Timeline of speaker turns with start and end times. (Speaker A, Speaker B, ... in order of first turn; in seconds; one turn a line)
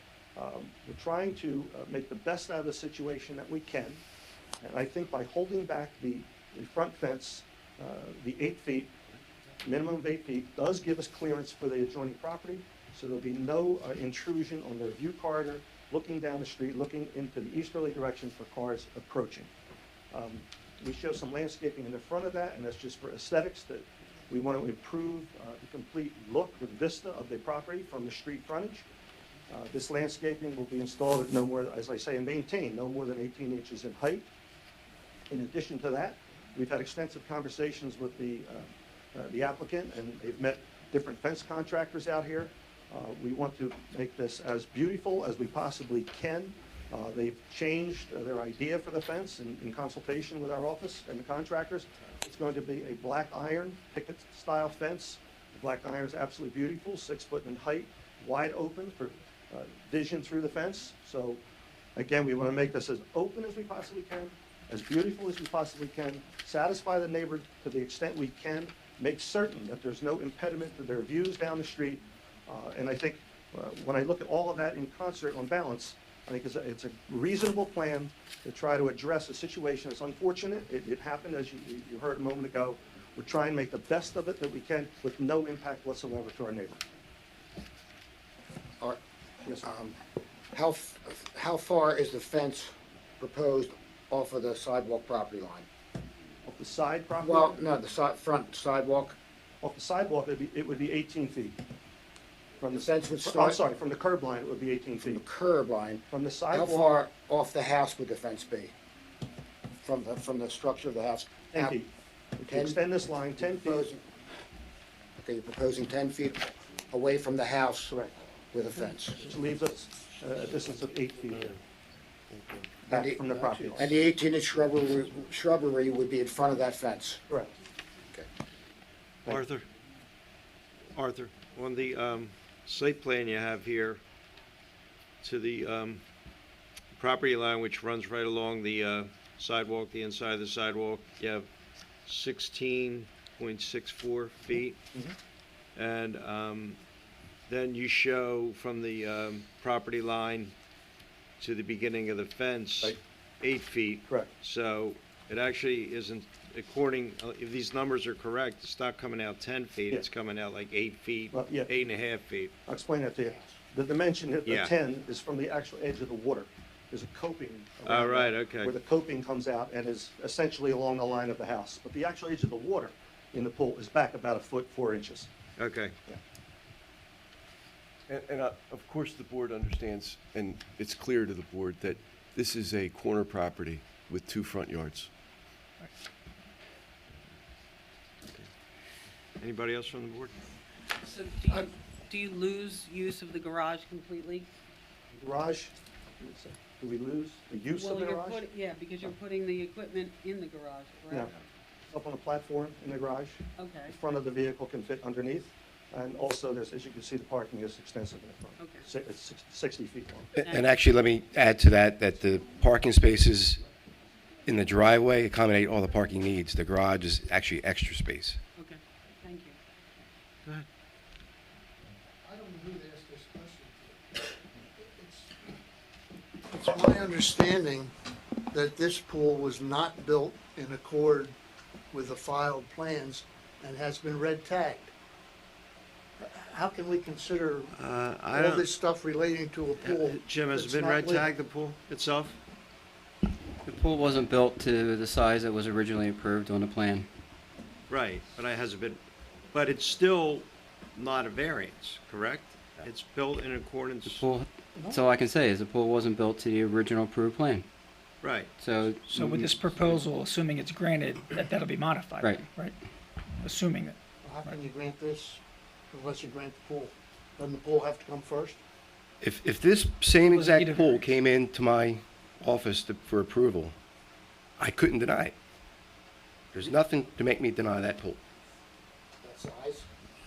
Speaker A: 0.4-4.0
Speaker A: 4.6-8.9
Speaker A: 9.6-19.5
Speaker A: 20.1-28.8
Speaker A: 29.5-34.3
Speaker A: 35.3-61.4
Speaker A: 62.0-86.8
Speaker B: 89.6-90.0
Speaker B: 90.5-95.7
Speaker A: 96.5-97.6
Speaker B: 97.2-99.2
Speaker A: 99.6-101.6
Speaker A: 102.6-105.2
Speaker B: 102.7-103.6
Speaker B: 105.1-108.7
Speaker A: 106.1-107.0
Speaker B: 109.8-111.8
Speaker A: 111.5-113.9
Speaker B: 112.5-112.8
Speaker B: 113.4-114.0
Speaker B: 115.2-118.0
Speaker B: 118.5-119.2
Speaker A: 119.2-121.6
Speaker B: 122.9-127.2
Speaker A: 122.9-123.9
Speaker C: 129.3-129.7
Speaker C: 130.9-134.0
Speaker C: 135.2-136.0
Speaker C: 136.9-141.5
Speaker C: 142.1-144.8
Speaker C: 145.8-146.8
Speaker C: 147.5-150.5
Speaker C: 151.4-162.5
Speaker A: 161.3-161.7
Speaker A: 162.7-175.3
Speaker C: 164.5-164.7
Speaker C: 167.9-168.7
Speaker C: 175.6-175.9
Speaker D: 178.1-185.1
Speaker C: 189.4-190.3
Speaker E: 191.0-194.5
Speaker A: 195.1-198.4
Speaker E: 197.7-201.4
Speaker A: 201.9-210.3
Speaker E: 203.6-204.0
Speaker E: 208.6-208.9
Speaker E: 210.4-210.7
Speaker F: 210.4-213.6
Speaker F: 214.5-218.4
Speaker E: 218.6-219.6
Speaker G: 222.2-224.0
Speaker G: 224.8-225.6
Speaker G: 226.5-227.9
Speaker G: 228.5-231.3
Speaker G: 231.9-234.9
Speaker G: 236.2-237.8
Speaker C: 237.8-238.7
Speaker G: 238.3-240.2
Speaker C: 239.8-242.4
Speaker A: 240.5-241.3
Speaker H: 243.7-247.1
Speaker C: 247.9-249.0
Speaker C: 249.5-254.3
Speaker H: 254.1-257.6
Speaker G: 254.8-255.0
Speaker C: 258.2-258.5
Speaker H: 258.6-259.5
Speaker I: 259.1-262.8
Speaker C: 259.1-260.0
Speaker I: 263.4-264.6
Speaker G: 264.2-265.4
Speaker G: 265.9-268.6
Speaker F: 269.2-273.7
Speaker I: 270.2-271.1
Speaker F: 274.6-275.3
Speaker F: 276.5-278.2
Speaker B: 279.2-279.9